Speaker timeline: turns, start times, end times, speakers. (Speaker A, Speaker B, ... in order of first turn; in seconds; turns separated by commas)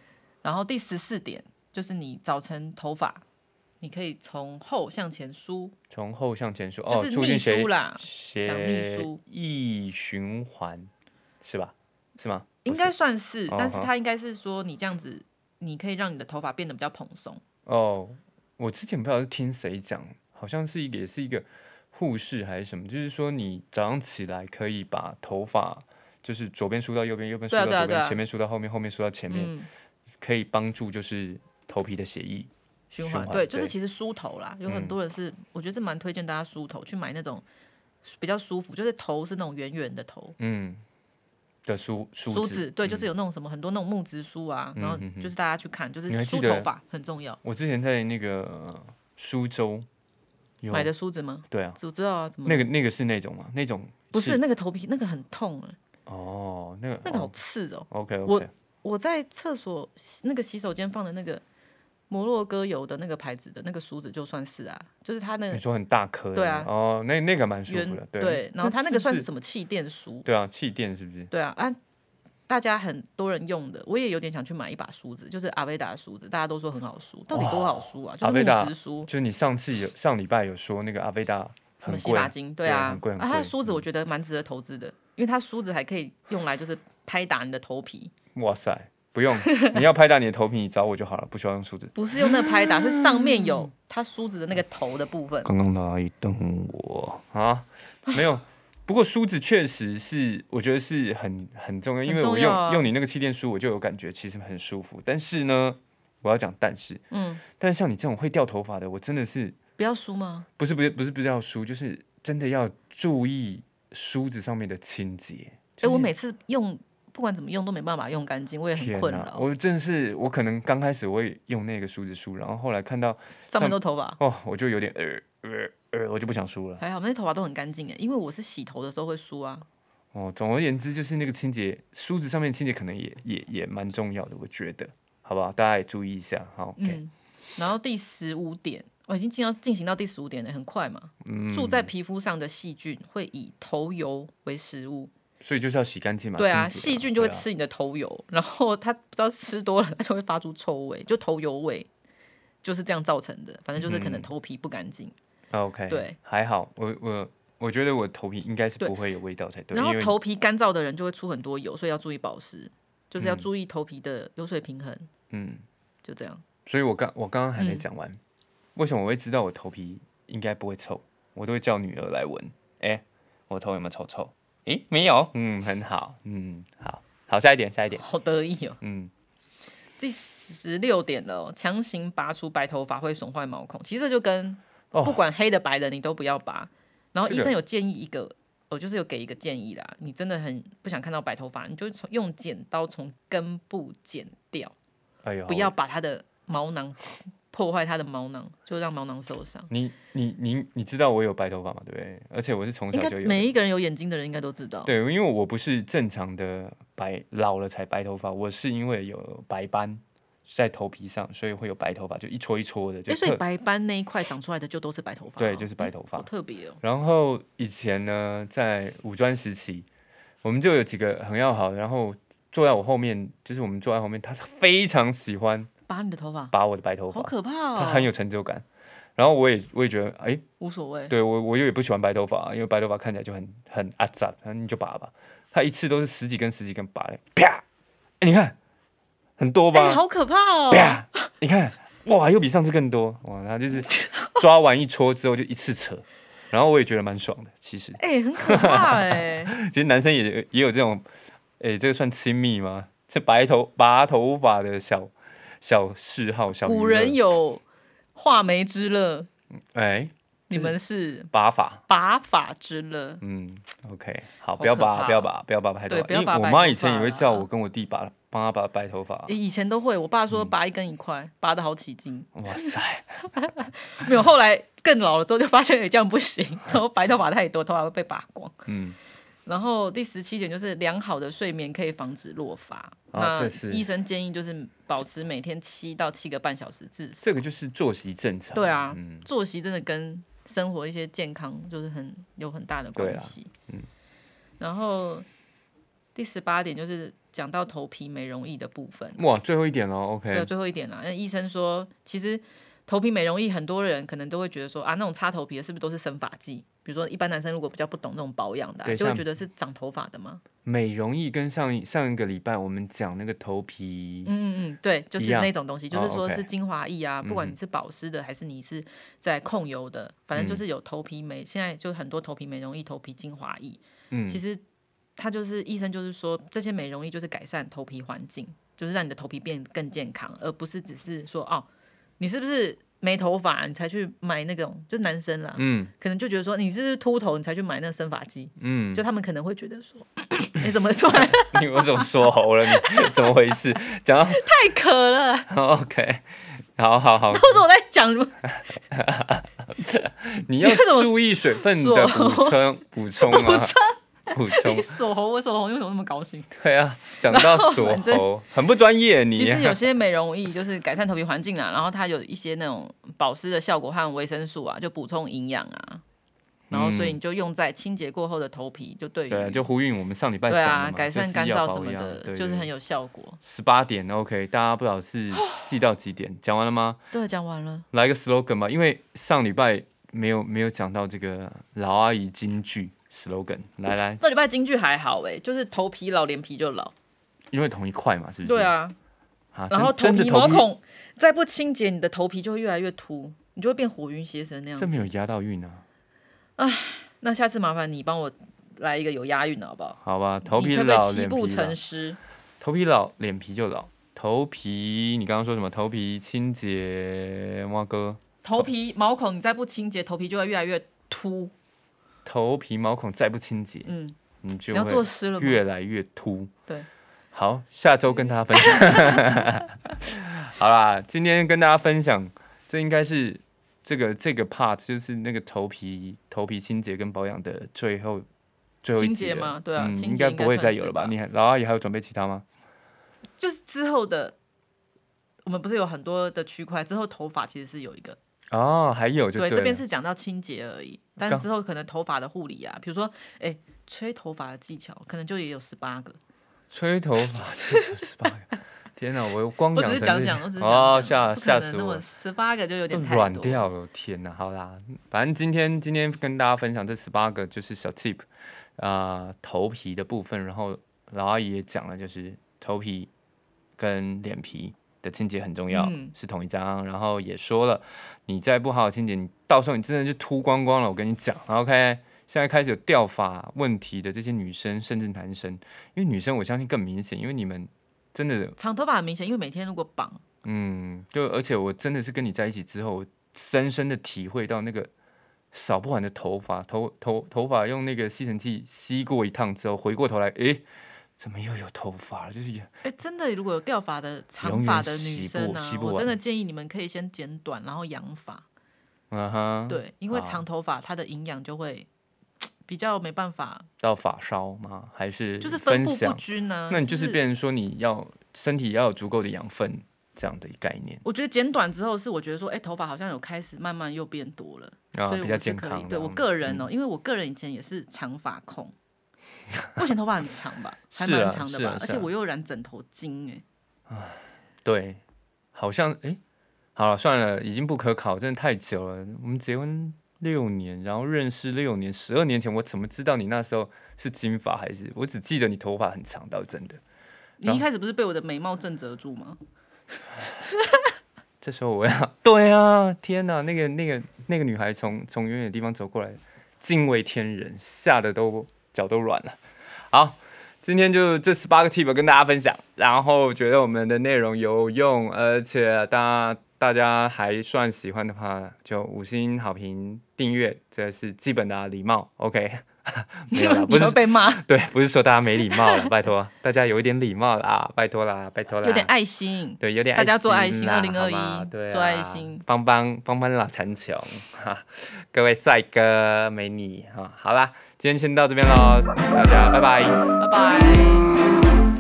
Speaker A: 0.4-3.2, Speaker A: 3.8-5.8, Speaker B: 5.9-10.9, Speaker A: 6.9-9.2, Speaker B: 11.4-12.9, Speaker A: 12.6-17.4, Speaker B: 13.5-13.9, Speaker B: 17.7-29.5, Speaker A: 27.5-28.2, Speaker A: 29.3-29.7, Speaker B: 30.2-32.5, Speaker A: 32.9-37.4, Speaker B: 33.0-33.7, Speaker B: 34.7-35.0, Speaker A: 38.0-40.4, Speaker B: 40.4-40.8, Speaker B: 41.6-43.1, Speaker A: 42.3-47.4, Speaker B: 44.8-45.3, Speaker B: 46.1-46.7, Speaker B: 47.4-49.9, Speaker B: 50.6-50.9, Speaker A: 50.7-52.7, Speaker B: 51.5-51.8, Speaker B: 52.5-54.4, Speaker A: 54.1-55.8, Speaker B: 56.1-57.4, Speaker A: 57.0-61.4, Speaker B: 57.9-58.5, Speaker A: 62.1-65.6, Speaker B: 65.5-69.3, Speaker A: 66.3-66.7, Speaker A: 67.7-70.3, Speaker B: 70.2-71.3, Speaker A: 71.3-71.8, Speaker A: 72.5-79.1, Speaker B: 77.3-83.8, Speaker A: 81.8-88.1, Speaker B: 88.3-93.7, Speaker A: 89.5-89.8, Speaker A: 92.0-95.5, Speaker B: 95.5-109.6, Speaker A: 102.1-102.9, Speaker A: 107.1-107.4, Speaker A: 109.8-110.5, Speaker B: 110.6-116.1, Speaker A: 115.8-119.5, Speaker B: 118.7-126.8, Speaker A: 123.5-124.2, Speaker A: 126.8-129.7, Speaker B: 130.1-137.0, Speaker A: 136.8-145.1, Speaker B: 141.2-141.9, Speaker B: 145.4-147.5, Speaker A: 146.4-151.9, Speaker A: 152.6-155.1, Speaker B: 153.8-154.3, Speaker B: 155.5-160.1, Speaker A: 155.9-156.1, Speaker A: 159.7-165.1, Speaker B: 163.2-163.5, Speaker B: 165.3-165.6, Speaker A: 166.0-166.4, Speaker B: 166.7-168.2, Speaker A: 167.6-167.8, Speaker B: 168.8-178.0, Speaker A: 178.0-178.8, Speaker B: 178.8-179.1, Speaker A: 180.0-194.7, Speaker B: 184.9-185.2, Speaker B: 187.2-187.5, Speaker B: 195.2-195.7, Speaker A: 195.5-199.7, Speaker B: 199.7-203.5, Speaker A: 202.9-204.9, Speaker B: 204.8-213.4, Speaker A: 213.1-216.8, Speaker B: 215.4-216.3, Speaker B: 216.8-219.9, Speaker B: 220.4-225.7, Speaker A: 225.9-226.5, Speaker B: 226.5-228.6, Speaker A: 227.1-228.1, Speaker B: 229.2-230.4, Speaker A: 230.6-231.1, Speaker B: 231.1-237.6, Speaker B: 238.2-238.6, Speaker B: 239.4-240.0, Speaker A: 239.7-241.3, Speaker B: 240.7-251.1, Speaker A: 243.8-244.4, Speaker A: 248.0-249.5, Speaker B: 251.6-257.2, Speaker A: 256.6-257.6, Speaker A: 258.1-259.3, Speaker B: 259.7-260.8, Speaker A: 260.5-261.3, Speaker B: 261.3-261.8, Speaker A: 261.9-263.2, Speaker B: 263.2-269.4, Speaker A: 264.6-265.3, Speaker A: 265.9-267.5, Speaker A: 269.3-272.7, Speaker B: 272.4-273.3, Speaker A: 273.3-278.6, Speaker B: 278.7-279.0, Speaker A: 279.5-287.4, Speaker B: 283.1-283.9, Speaker B: 287.2-289.3, Speaker A: 288.5-293.5, Speaker B: 293.0-293.9, Speaker A: 294.6-295.3, Speaker A: 296.1-299.2, Speaker B: 299.2-300.5, Speaker A: 300.3-310.4, Speaker B: 308.9-309.3, Speaker B: 310.6-314.3, Speaker A: 314.3-324.6, Speaker B: 315.2-316.5, Speaker B: 317.2-317.6, Speaker B: 320.4-320.6, Speaker B: 324.1-324.4, Speaker A: 325.2-331.7, Speaker A: 332.2-343.3, Speaker B: 335.6-335.9, Speaker B: 338.6-339.0, Speaker B: 341.1-344.4, Speaker A: 344.3-345.5, Speaker B: 345.5-347.6, Speaker A: 347.3-348.4, Speaker B: 348.5-353.8, Speaker A: 350.6-352.6, Speaker A: 353.2-356.5, Speaker B: 354.3-355.0, Speaker B: 356.5-359.8, Speaker A: 357.3-358.3, Speaker A: 359.3-366.0, Speaker B: 366.7-367.2, Speaker A: 366.7-369.7, Speaker B: 369.3-372.7, Speaker A: 370.5-373.4, Speaker B: 373.4-377.0, Speaker A: 375.4-375.6, Speaker A: 377.1-377.9, Speaker B: 377.9-384.2, Speaker A: 384.2-386.9, Speaker B: 387.5-388.7, Speaker A: 388.4-389.0, Speaker B: 389.5-390.7, Speaker A: 389.7-395.1, Speaker B: 394.8-395.9, Speaker A: 396.6-402.2, Speaker B: 400.0-401.8, Speaker B: 402.6-408.7, Speaker A: 408.4-411.5, Speaker B: 412.2-413.9, Speaker A: 413.9-414.2, Speaker B: 414.4-416.5, Speaker A: 414.7-415.6, Speaker B: 417.3-428.3, Speaker A: 418.6-419.6, Speaker B: 428.8-432.4, Speaker A: 428.9-431.1, Speaker A: 433.4-434.4, Speaker A: 435.4-438.2, Speaker B: 438.5-439.8, Speaker A: 439.4-446.2, Speaker B: 446.7-452.0, Speaker A: 447.7-448.1, Speaker A: 449.7-453.7, Speaker B: 452.9-463.1, Speaker B: 463.8-478.6, Speaker A: 465.7-466.1, Speaker A: 478.6-480.2, Speaker B: 480.4-484.9, Speaker B: 485.5-490.6, Speaker B: 491.2-492.7, Speaker A: 492.8-498.4, Speaker B: 494.4-496.2, Speaker B: 499.1-500.4, Speaker A: 499.7-501.9, Speaker A: 502.6-503.7, Speaker B: 503.8-511.0, Speaker A: 505.4-507.2, Speaker A: 511.0-518.7, Speaker B: 514.9-516.7, Speaker B: 519.6-519.9, Speaker A: 519.8-523.4, Speaker B: 520.9-522.1, Speaker B: 523.9-525.0, Speaker B: 525.5-526.2, Speaker B: 526.8-536.8, Speaker A: 537.4-539.4, Speaker A: 540.5-540.9, Speaker B: 541.4-568.9, Speaker A: 563.3-564.5, Speaker A: 565.6-565.9, Speaker A: 568.6-572.4, Speaker B: 569.6-580.0, Speaker A: 580.2-581.2